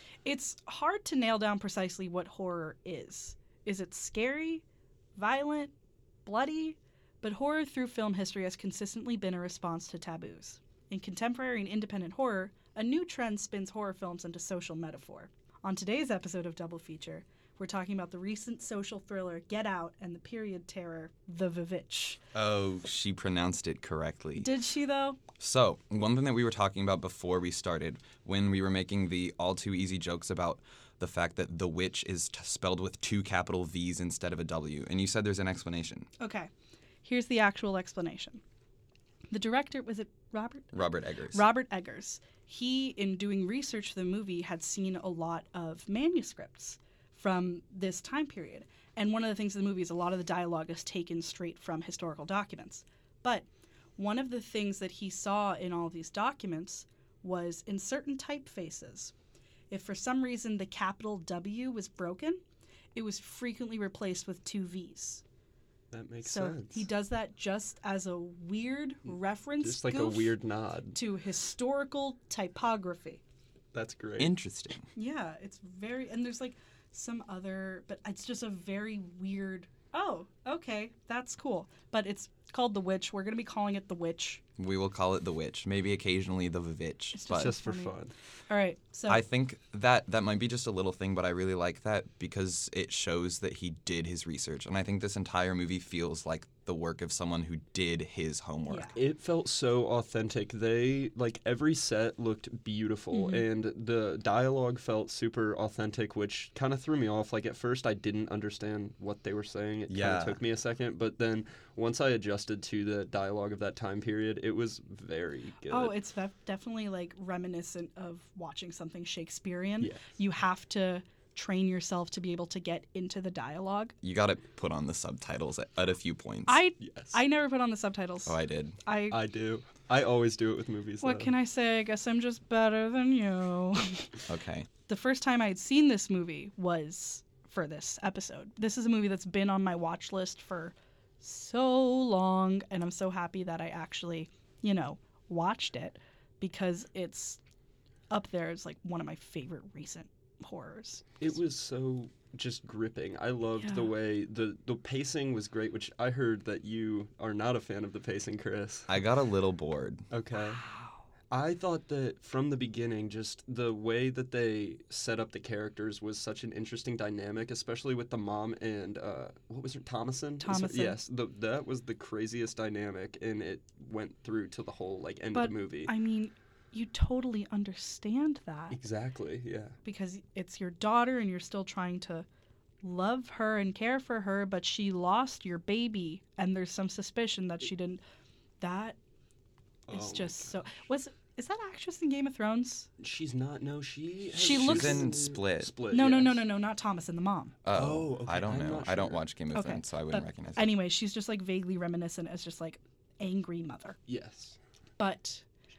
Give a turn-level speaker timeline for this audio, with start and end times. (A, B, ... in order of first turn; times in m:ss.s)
0:00.2-0:04.6 A
0:05.2-0:05.7 A
0:06.2-0:22.2 A
0:22.3-0:24.5 B
0:24.4-0:25.2 A
0:25.4-0:36.1 B
0:36.2-0:36.5 A
0:37.0-0:38.4 A
0:39.3-0:40.8 A
0:40.7-0:41.4 B
0:41.3-0:53.5 A
0:54.0-0:59.1 A
0:59.7-1:02.4 A
1:03.0-1:05.2 A
1:05.9-1:06.9 C
1:06.2-1:10.4 A
1:09.6-1:11.0 C
1:11.0-1:13.2 A
1:13.7-1:14.3 C
1:14.2-1:14.9 B
1:15.0-1:24.4 A
1:24.6-1:27.5 B
1:27.1-1:28.0 A
1:27.3-1:28.1 C
1:28.5-1:29.2 A
1:29.1-1:38.9 B
1:38.7-1:39.0 A
1:39.0-1:55.9 C
1:43.1-1:43.5 A
1:49.9-1:50.4 B
1:55.7-2:03.9 A
1:59.8-2:00.0 C
2:04.0-2:06.6 B
2:06.5-2:09.2 A
2:06.8-2:07.2 C
2:08.3-2:08.8 B
2:09.1-2:11.3 C
2:11.0-2:14.2 A
2:14.3-2:14.7 B
2:14.9-2:27.4 A
2:28.1-2:31.2 A
2:31.2-2:38.9 C
2:33.6-2:33.9 A
2:38.9-2:40.1 B
2:40.1-2:40.6 C
2:41.3-2:55.9 C
2:50.4-2:51.0 A
2:55.3-2:58.8 A
2:58.7-2:59.8 C
2:59.8-3:02.3 A
3:02.8-3:08.0 A
3:08.6-3:09.0 A
3:09.9-3:10.6 C
3:09.9-3:12.9 A
3:13.0-3:16.5 C
3:14.4-3:15.2 A
3:14.4-3:15.7 B
3:15.9-3:17.6 A
3:17.6-3:20.7 B
3:17.7-3:19.2 C
3:19.5-3:24.0 A
3:24.1-3:24.6 C
3:25.0-3:25.4 A